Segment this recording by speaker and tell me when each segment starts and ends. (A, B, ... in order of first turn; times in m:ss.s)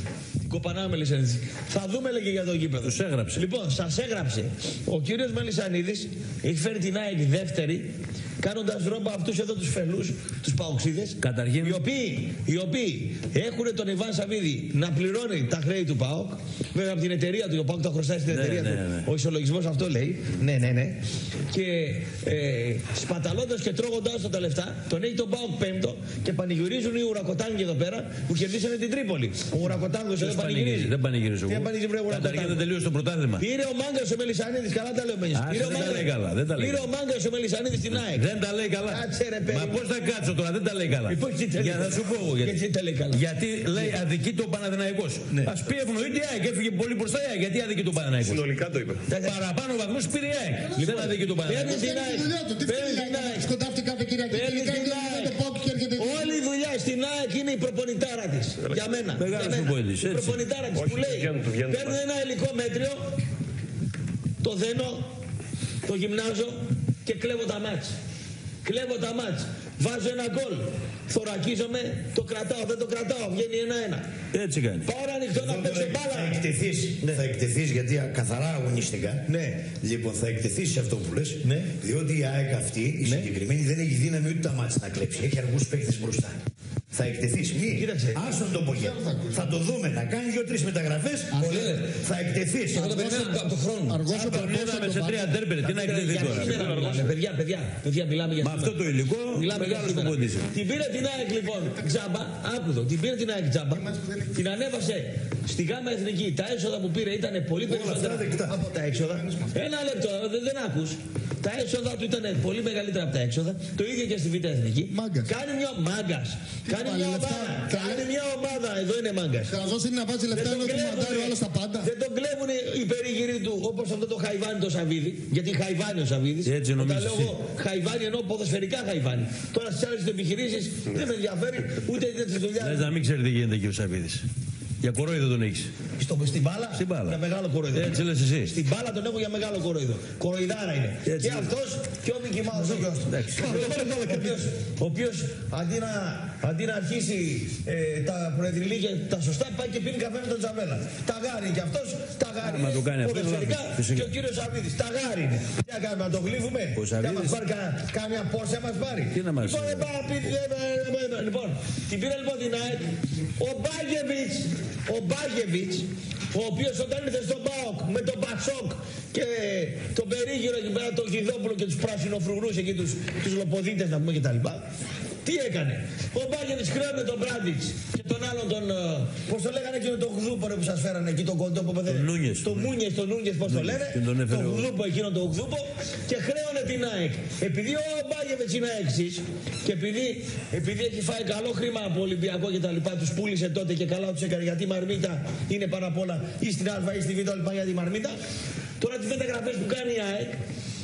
0:00.5-0:30.9 A
0:02.8-0:03.4 B
0:11.2-0:11.8 B
0:18.3-0:19.0 B
0:30.2-0:33.4 B
0:31.5-0:32.6 A
0:33.4-0:38.3 A
0:35.3-0:36.9 B
0:37.9-0:42.5 B
0:38.8-0:39.8 A
0:41.0-0:43.2 A
0:43.1-0:48.5 B
0:48.2-0:49.0 C
0:49.0-0:49.4 A
0:49.1-0:51.9 B
0:50.8-0:53.5 A
0:51.6-0:56.4 D
0:54.3-0:55.4 A
0:56.0-1:03.1 A
0:59.2-1:00.4 B
1:00.7-1:02.0 C
1:04.4-1:05.1 A
1:05.8-1:07.9 A
1:08.6-1:14.1 A
1:14.3-1:14.9 B
1:14.8-1:16.4 A
1:15.3-1:26.4 E
1:19.3-1:19.7 A
1:21.4-1:21.7 A
1:23.0-1:23.3 A
1:26.9-1:32.9 E
1:27.7-1:28.4 A
1:28.6-1:29.4 D
1:31.3-1:31.9 A
1:32.7-1:34.0 A
1:32.7-1:35.3 D
1:34.0-1:36.9 B
1:35.6-1:59.6 A
1:36.2-1:37.1 C
1:38.4-1:40.5 B
1:47.7-1:48.6 E
1:54.9-1:55.3 D
1:56.7-1:58.0 D
1:59.5-2:01.9 D
2:00.3-2:12.9 A
2:06.4-2:07.3 B
2:12.6-2:14.2 B
2:14.8-2:15.7 B
2:16.0-2:54.6 A
2:16.7-2:17.2 B
2:17.7-2:18.5 B
2:21.0-2:21.5 B
2:22.5-2:23.9 B
2:23.7-2:24.0 D
2:32.4-2:34.1 B
2:36.8-2:37.4 B
2:39.1-2:39.9 B
2:55.2-3:18.2 A
3:01.8-3:02.7 B
3:03.4-3:04.7 B
3:18.8-3:20.4 A